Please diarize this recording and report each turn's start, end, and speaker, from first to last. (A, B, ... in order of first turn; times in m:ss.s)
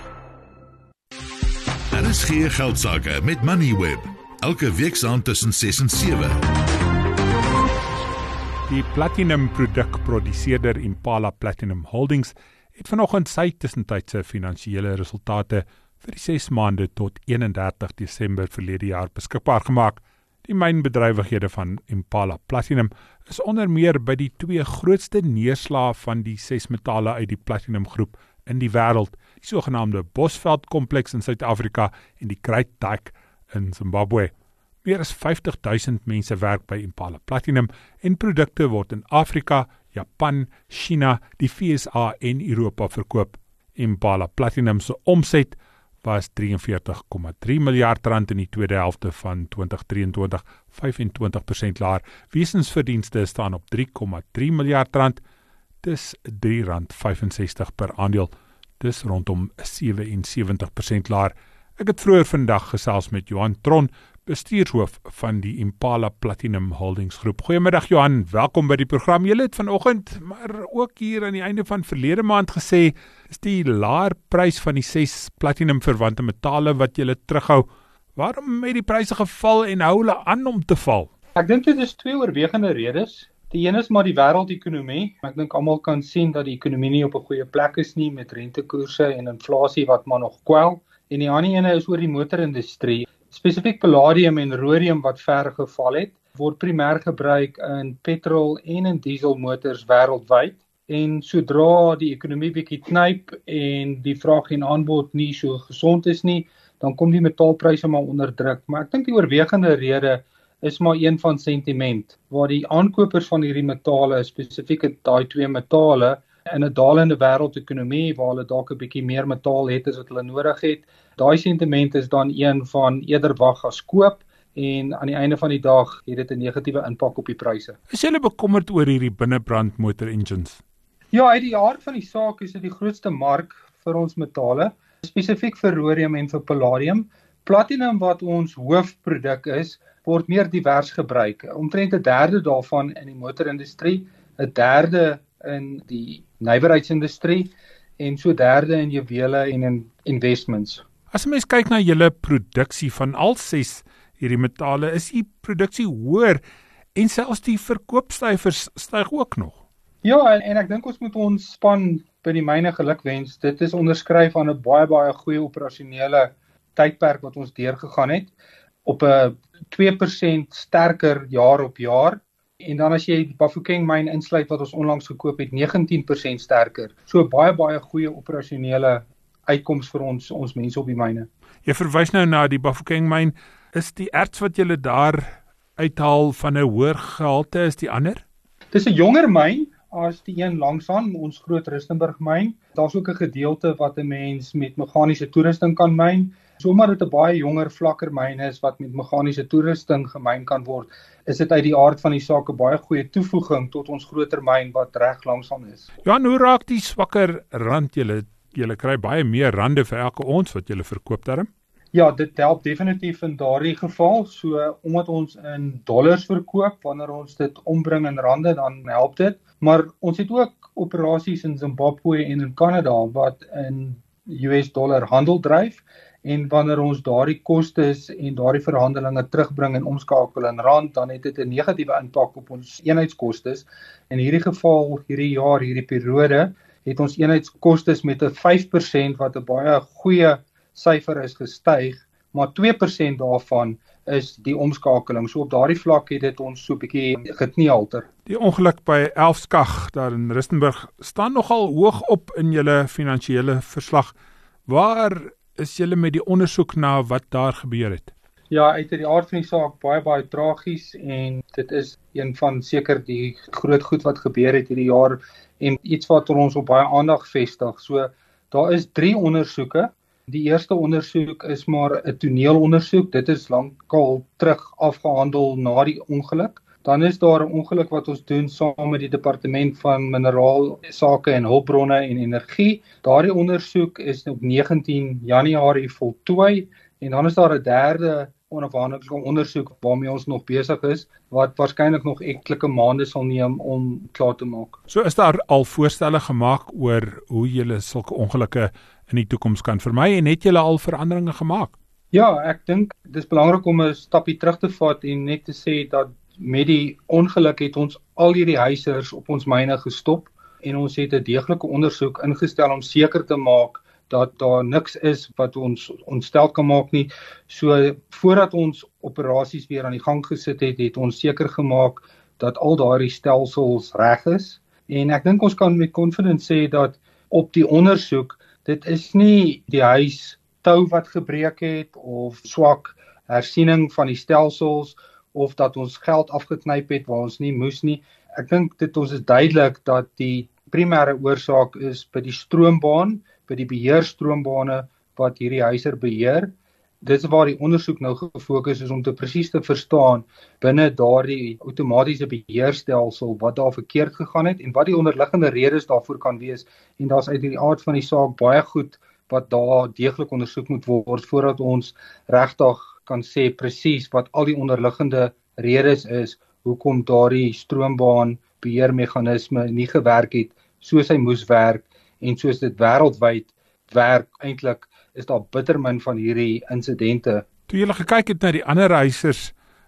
0:01.9-0:06.4 A
0:08.7-0:34.3 B
0:34.8-0:55.2 B
0:55.8-1:21.1 B
1:21.3-2:07.8 C
2:07.9-2:10.6 B
2:11.1-2:30.8 C
2:31.1-2:36.4 B
2:36.9-2:39.6 B
2:40.0-2:48.3 C
2:48.8-3:01.3 C
3:01.6-3:08.2 B
3:08.7-3:25.9 C
3:26.0-3:31.5 B
3:31.9-4:08.1 C
4:08.2-4:14.1 B
4:14.7-4:18.1 B
4:18.5-4:54.8 C
4:54.9-5:01.8 B
5:02.1-6:17.4 C
6:17.7-6:19.5 B